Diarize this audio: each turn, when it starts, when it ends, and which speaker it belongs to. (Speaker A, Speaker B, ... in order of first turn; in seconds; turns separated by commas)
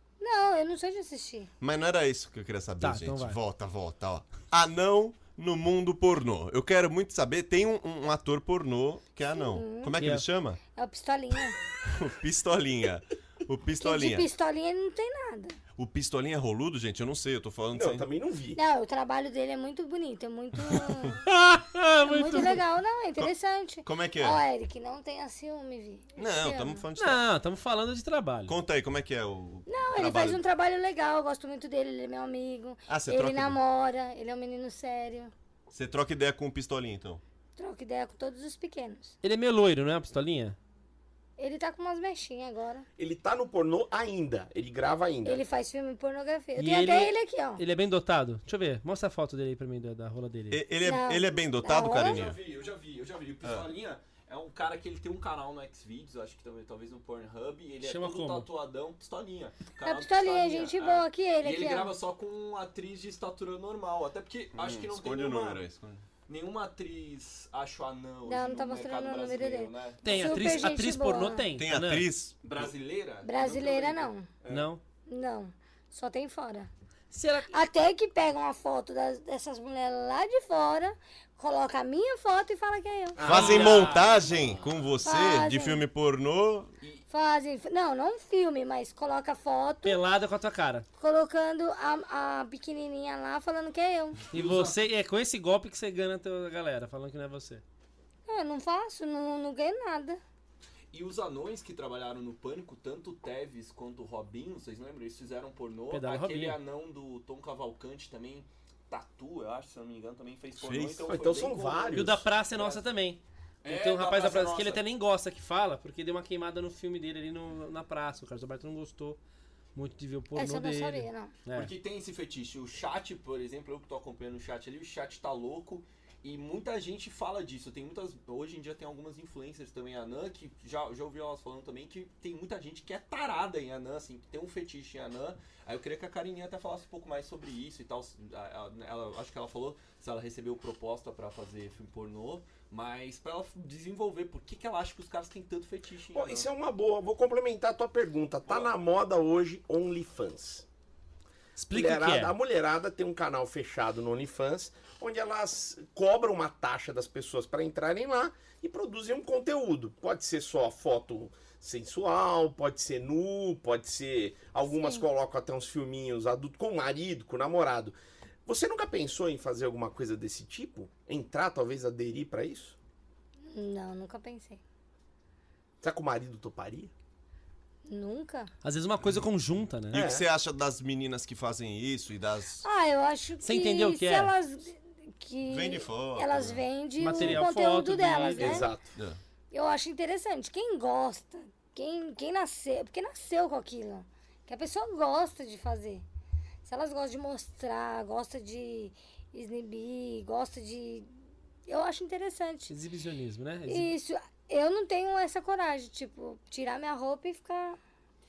Speaker A: 0.2-1.5, Speaker B: 1.6-10.6, Speaker C: 2.8-3.4, Speaker A: 9.3-10.0, Speaker C: 10.0-10.2, Speaker A: 10.7-11.6, Speaker B: 11.9-14.3, Speaker A: 13.8-15.6, Speaker B: 15.8-18.1, Speaker D: 17.7-18.6, Speaker A: 18.6-21.2, Speaker C: 21.3-22.6, Speaker A: 22.0-26.8, Speaker B: 23.9-24.4, Speaker B: 26.2-27.2, Speaker C: 27.0-28.6, Speaker B: 28.5-30.4, Speaker A: 29.7-35.3, Speaker B: 32.9-33.6, Speaker B: 35.7-37.2, Speaker A: 37.6-39.2, Speaker C: 39.2-40.6, Speaker A: 41.4-42.9, Speaker D: 43.0-45.4, Speaker A: 45.2-47.6, Speaker C: 46.6-50.6, Speaker B: 50.5-52.4, Speaker A: 50.8-52.2, Speaker E: 51.8-65.6, Speaker B: 53.4-53.7, Speaker C: 57.8-58.5, Speaker A: 59.8-61.9, Speaker B: 64.5-66.0, Speaker E: 66.3-70.6, Speaker A: 68.3-71.5, Speaker C: 70.0-72.1, Speaker B: 71.6-72.7, Speaker E: 72.4-74.7, Speaker A: 73.2-74.3, Speaker C: 74.5-74.8, Speaker A: 75.1-76.7, Speaker C: 77.1-77.6, Speaker A: 77.5-83.2, Speaker D: 83.2-84.9, Speaker B: 83.2-86.7, Speaker C: 83.3-84.1, Speaker E: 83.3-84.1, Speaker A: 85.0-85.8, Speaker A: 87.1-90.0, Speaker C: 89.8-90.9, Speaker A: 91.0-94.2, Speaker E: 94.3-94.8, Speaker C: 94.3-97.6, Speaker A: 98.3-100.2, Speaker E: 100.9-112.8, Speaker C: 105.9-106.6, Speaker B: 110.6-111.1, Speaker D: 111.1-112.2, Speaker C: 111.9-119.2, Speaker E: 113.6-114.8, Speaker C: 119.8-121.7, Speaker A: 120.3-121.3, Speaker E: 121.5-146.5, Speaker D: 146.1-150.7, Speaker E: 148.5-148.8, Speaker C: 151.6-152.3, Speaker D: 151.7-172.8, Speaker A: 164.7-165.1, Speaker A: 173.5-174.6, Speaker D: 175.8-176.9, Speaker A: 177.9-178.5, Speaker C: 178.6-180.0, Speaker D: 179.9-180.3, Speaker B: 179.9-182.7, Speaker A: 182.6-188.7, Speaker C: 183.4-184.3, Speaker B: 185.5-186.6, Speaker C: 187.0-188.7, Speaker D: 188.4-188.9, Speaker A: 189.5-196.0, Speaker A: 196.7-201.1, Speaker A: 201.7-202.7, Speaker C: 202.7-203.9, Speaker A: 203.7-207.8